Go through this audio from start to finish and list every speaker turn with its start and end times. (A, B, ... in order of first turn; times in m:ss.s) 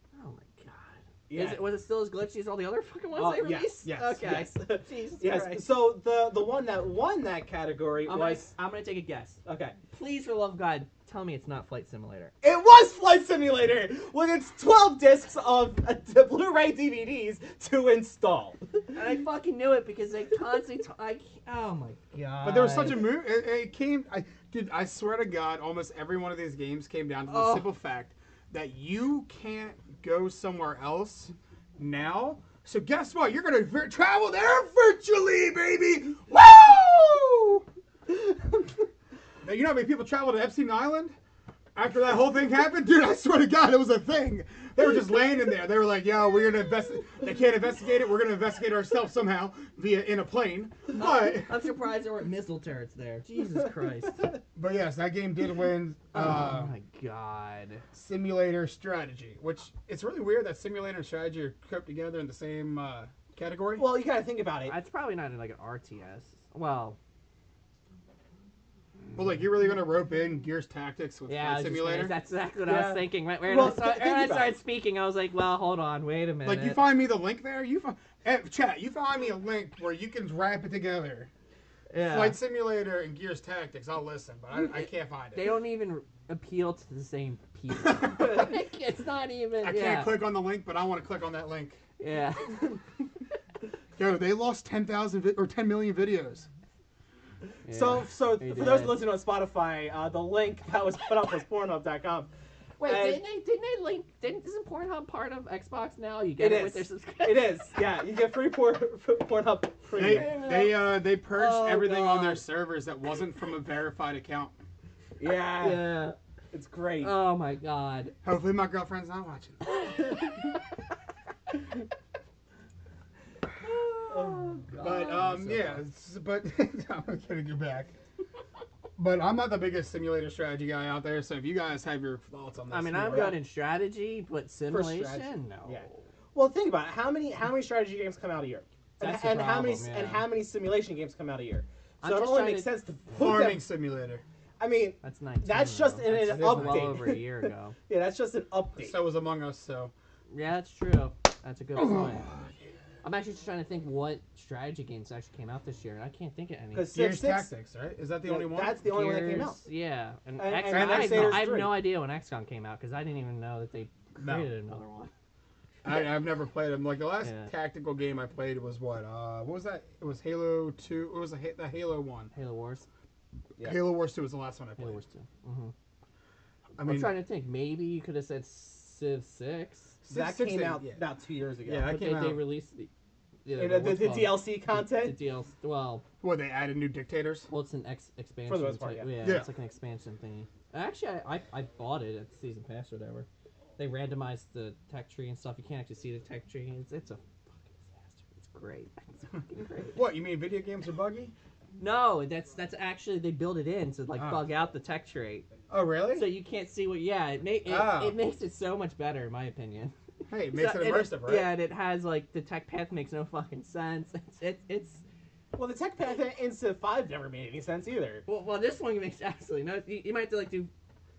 0:00.1-0:05.6 A
0:01.3-0:01.6 B
0:03.1-0:08.5 B
0:03.8-0:04.2 C
0:08.0-0:12.3 A
0:09.4-0:09.8 B
0:12.4-0:18.6 B
0:18.9-0:23.1 A
0:22.4-0:37.6 C
0:27.3-0:27.7 A
0:39.4-0:41.1 C
0:41.7-0:51.5 C
0:50.9-0:54.4 A
0:54.5-0:56.7 C
0:56.1-0:57.8 A
0:57.9-1:03.9 C
1:03.8-1:04.7 B
1:04.6-1:07.0 A
1:09.1-1:12.1 C
1:11.3-1:16.8 A
1:12.6-1:14.5 B
1:16.4-1:21.3 C
1:21.9-1:22.4 A
1:22.0-1:25.5 C
1:24.5-1:30.2 A
1:27.7-1:28.6 C
1:29.6-1:31.8 C
1:32.0-1:32.8 A
1:34.0-1:36.5 C
1:37.6-1:39.0 A
1:37.7-1:42.3 B
1:42.8-1:47.7 A
1:42.8-1:43.2 B
1:46.4-1:50.4 B
1:50.0-1:52.4 A
1:50.0-1:54.6 C
1:55.2-1:56.0 B
1:55.6-1:56.2 A
1:56.5-1:57.2 B
1:57.0-1:58.1 A
1:58.2-1:59.9 C
1:59.6-2:00.5 A
2:03.6-2:05.8 A
2:04.1-2:04.6 B
2:04.8-2:07.9 C
2:09.0-2:13.4 C
2:12.7-2:16.0 A
2:13.0-2:13.4 B
2:14.7-2:23.6 B
2:19.0-2:20.3 A
2:22.0-2:22.7 A
2:23.1-2:24.2 C
2:24.6-2:29.0 B
2:25.0-2:27.8 A
2:26.2-2:26.9 C
2:28.8-2:29.9 C
2:30.3-2:32.3 A
2:31.8-2:32.5 C
2:33.0-2:36.9 A
2:36.7-2:37.5 B
2:36.9-2:38.8 C
2:38.2-2:39.6 B
2:38.8-2:45.1 A
2:40.4-2:41.8 B
2:40.7-2:41.5 C
2:44.2-2:44.5 C
2:45.8-2:52.3 C
2:47.2-2:47.5 A
2:52.3-2:52.9 A
2:53.6-2:55.0 C
2:54.8-2:55.7 A
2:56.8-2:57.1 C
2:56.8-3:00.0 A
3:00.0-3:01.0 C
3:00.1-3:01.9 B
3:01.6-3:02.4 C
3:01.8-3:02.9 A
3:03.4-3:06.0 A
3:03.6-3:05.2 B
3:06.2-3:07.5 C
3:07.5-3:13.3 A
3:08.5-3:09.1 B
3:09.2-3:09.5 C
3:13.8-3:20.0 A
3:19.9-3:21.3 C
3:21.8-3:25.5 A
3:24.2-3:24.4 C
3:25.7-3:26.3 C
3:26.1-3:29.9 A
3:27.6-3:28.2 C
3:30.3-3:31.5 C
3:30.5-3:35.0 A
3:35.5-3:38.2 B
3:38.2-3:40.7 A